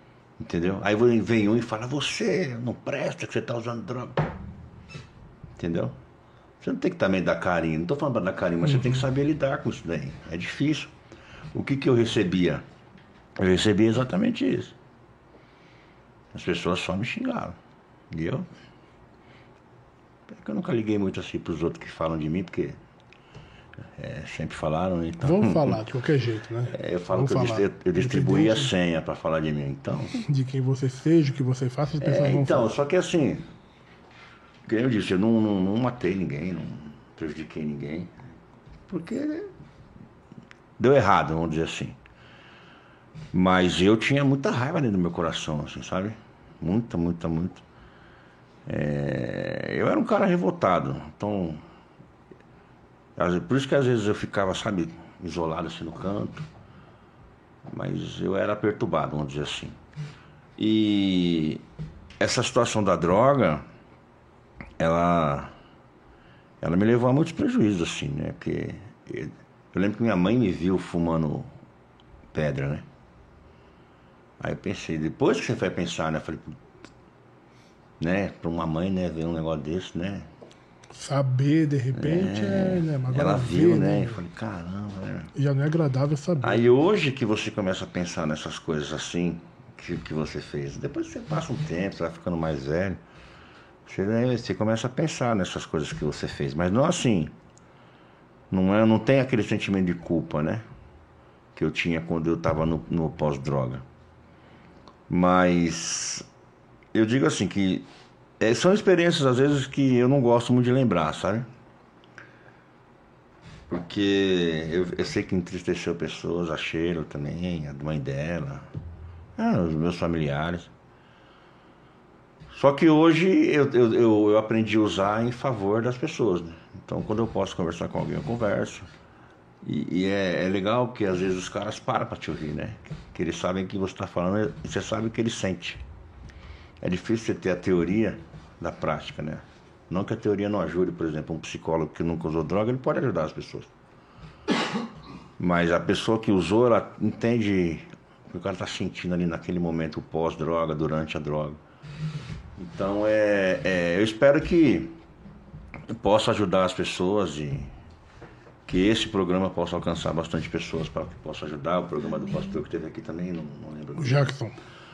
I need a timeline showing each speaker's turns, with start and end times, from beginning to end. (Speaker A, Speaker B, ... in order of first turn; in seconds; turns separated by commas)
Speaker A: 0.4-4.3, Speaker A: 5.6-6.0, Speaker A: 6.6-10.9, Speaker B: 8.7-9.0, Speaker A: 11.5-12.6, Speaker A: 13.4-14.7, Speaker A: 16.3-17.6, Speaker A: 18.1-18.5, Speaker A: 20.3-22.8, Speaker A: 24.0-25.8, Speaker B: 25.2-28.7, Speaker A: 26.7-30.1, Speaker B: 30.1-32.7, Speaker A: 32.0-33.5, Speaker A: 34.6-38.1, Speaker A: 38.9-39.5, Speaker A: 40.8-42.0, Speaker A: 43.3-47.6, Speaker A: 48.6-51.6, Speaker A: 53.2-56.5, Speaker A: 57.7-59.8, Speaker A: 60.6-61.6, Speaker A: 62.2-63.6, Speaker A: 64.8-65.5, Speaker A: 66.6-71.5, Speaker A: 72.3-72.8, Speaker A: 74.4-76.6, Speaker A: 78.0-80.3, Speaker B: 80.9-84.2, Speaker A: 81.9-85.3, Speaker B: 85.3-86.6, Speaker A: 86.4-93.0, Speaker A: 93.8-97.3, Speaker A: 98.5-100.6, Speaker A: 101.5-103.8, Speaker A: 105.1-106.2, Speaker A: 106.9-107.8, Speaker A: 108.4-111.5, Speaker A: 113.7-118.7, Speaker A: 119.4-120.7, Speaker A: 122.5-128.9, Speaker A: 129.6-135.8, Speaker A: 136.8-143.7, Speaker A: 145.4-151.6, Speaker A: 152.6-154.9, Speaker A: 155.9-157.7, Speaker A: 158.7-164.3, Speaker B: 163.9-164.6